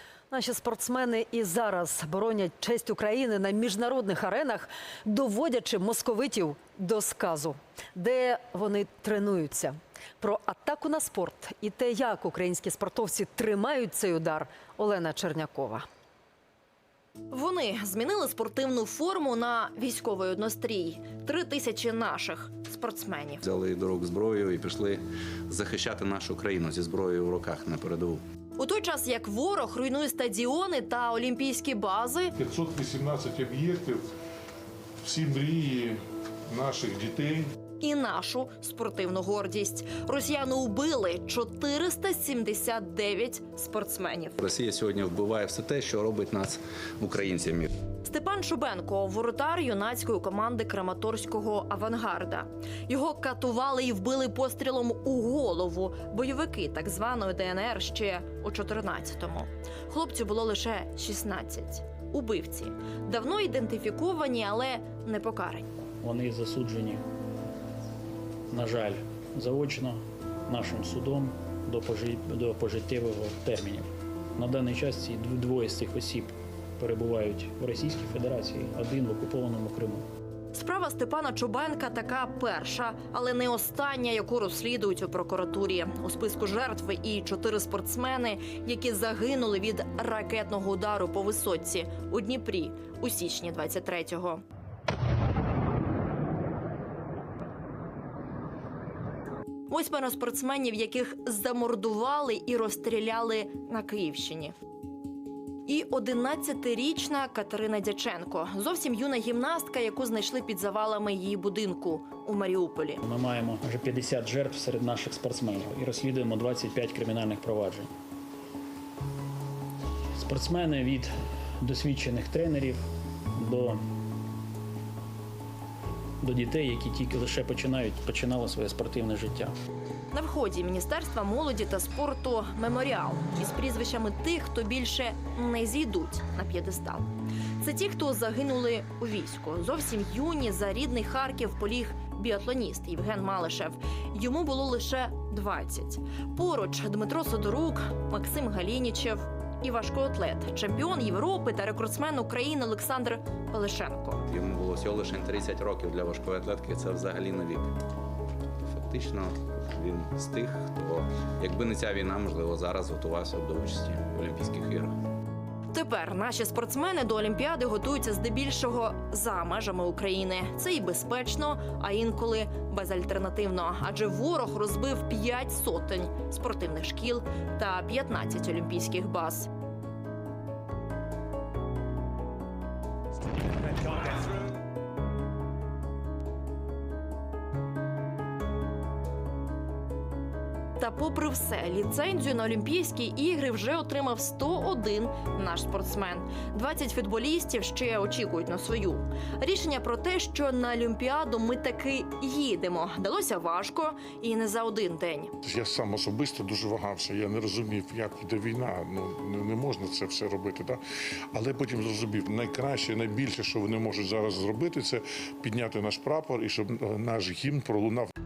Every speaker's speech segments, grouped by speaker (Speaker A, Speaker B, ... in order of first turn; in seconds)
Speaker A: 0.3-15.8
Speaker B: 17.3-23.4, 28.6-32.3, 37.8-44.4, 48.0-65.7, 80.5-94.4, 99.7-104.5, 105.7-113.0, 130.1-137.1, 137.6-154.2, 165.7-179.5, 190.8-205.3
Speaker C: 23.4-28.2, 44.4-47.7, 154.3-157.7, 158.7-164.9
Speaker D: 32.4-34.0, 35.0-36.0, 36.5-37.5, 205.4-210.8, 211.3-218.1
Speaker E: 66.0-67.0, 68.5-80.0, 113.0-117.9, 120.2-122.8, 123.4-123.8, 126.2-129.5